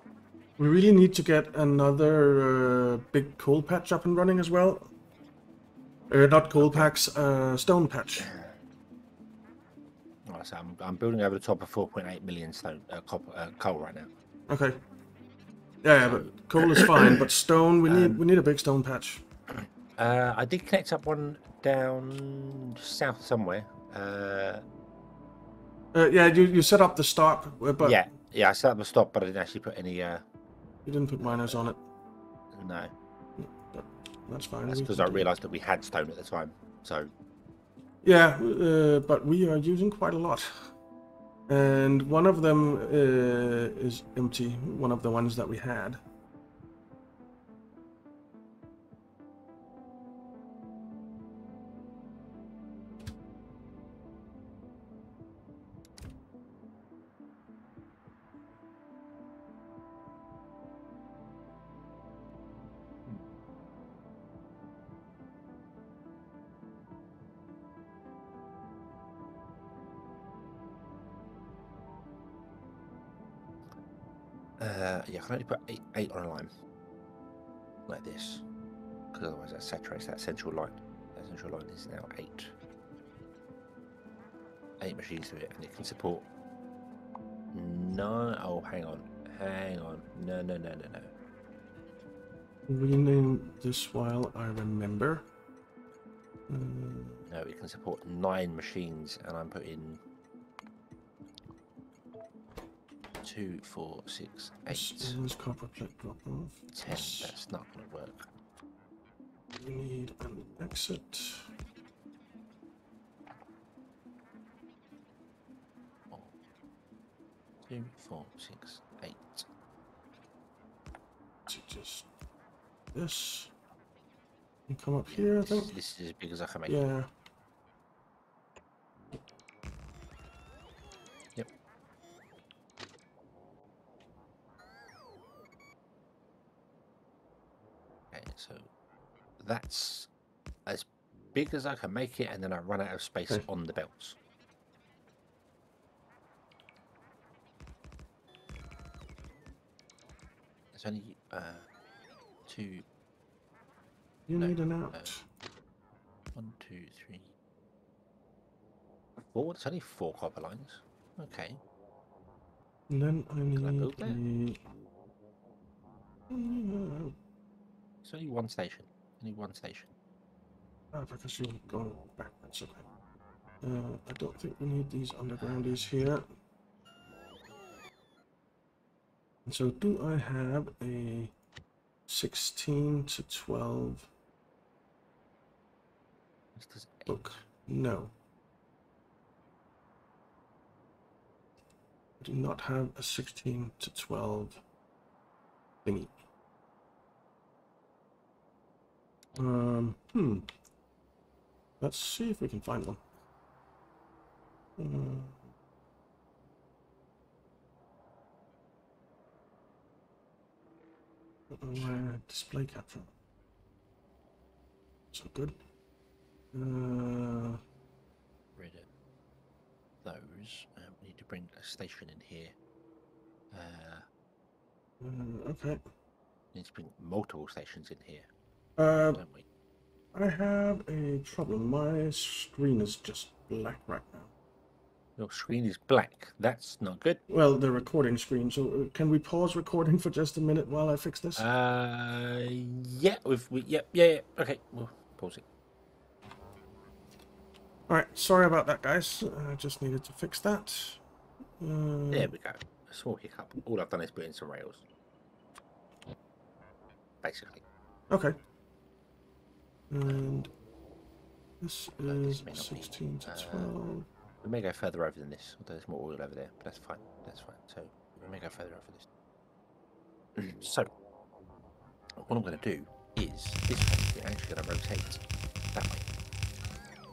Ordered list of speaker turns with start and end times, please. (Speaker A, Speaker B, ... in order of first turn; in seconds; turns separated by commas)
Speaker A: 0.6-4.9, Speaker A: 6.1-8.3, Speaker B: 6.5-6.9, Speaker B: 8.2-8.6, Speaker B: 10.2-14.1, Speaker A: 14.5-14.8, Speaker A: 15.8-19.2, Speaker B: 16.0-17.2, Speaker B: 17.8-18.2, Speaker B: 19.5-24.6, Speaker A: 25.9-28.0, Speaker B: 27.8-30.2, Speaker A: 30.9-31.8, Speaker B: 31.2-31.6, Speaker B: 32.5-32.9, Speaker A: 33.4-35.3, Speaker B: 34.7-37.1, Speaker A: 38.0-40.7, Speaker A: 41.5-46.0, Speaker B: 74.6-76.5, Speaker B: 77.9-78.4, Speaker B: 79.1-82.5, Speaker B: 84.8-86.3, Speaker B: 87.5-91.1, Speaker A: 92.7-95.2, Speaker A: 96.5-97.2, Speaker B: 97.3-100.0, Speaker B: 103.2-105.2, Speaker A: 104.7-107.4, Speaker B: 106.7-108.3, Speaker A: 109.6-111.5, Speaker B: 117.6-119.5, Speaker A: 121.5-122.1, Speaker A: 122.9-123.5, Speaker A: 124.7-125.7, Speaker B: 125.1-126.8, Speaker A: 126.7-127.1, Speaker B: 138.1-138.7, Speaker B: 139.4-140.1, Speaker B: 140.7-144.2, Speaker B: 150.7-151.7, Speaker B: 152.4-152.8, Speaker A: 154.3-155.2, Speaker B: 154.3-155.2, Speaker B: 156.3-157.3, Speaker B: 159.3-161.6, Speaker A: 162.9-164.6, Speaker B: 163.5-164.2, Speaker A: 166.3-167.1, Speaker B: 168.0-169.9, Speaker A: 170.9-172.8, Speaker A: 173.6-176.2, Speaker B: 175.4-175.8, Speaker A: 179.4-181.3, Speaker A: 182.1-184.1, Speaker B: 186.5-187.4, Speaker A: 187.1-188.1, Speaker A: 192.2-194.6, Speaker A: 195.8-196.1, Speaker A: 199.3-200.5, Speaker A: 201.8-203.0, Speaker A: 204.8-205.5, Speaker A: 211.5-213.1, Speaker A: 215.1-215.6, Speaker A: 216.5-217.6, Speaker B: 218.6-218.9, Speaker B: 220.0-222.6, Speaker B: 223.5-224.1, Speaker A: 225.0-225.8, Speaker B: 226.5-228.3, Speaker A: 228.8-229.2, Speaker B: 229.1-229.4, Speaker A: 230.1-234.3, Speaker B: 235.2-237.2, Speaker A: 237.3-241.4, Speaker B: 241.3-245.4, Speaker A: 247.9-251.0, Speaker A: 251.6-252.3, Speaker B: 252.1-254.8, Speaker B: 257.2-257.6, Speaker A: 258.1-258.4, Speaker A: 259.9-260.5, Speaker A: 261.6-264.1, Speaker B: 262.0-263.7, Speaker B: 264.4-269.1, Speaker B: 270.4-270.9, Speaker B: 272.2-275.2, Speaker B: 275.7-276.1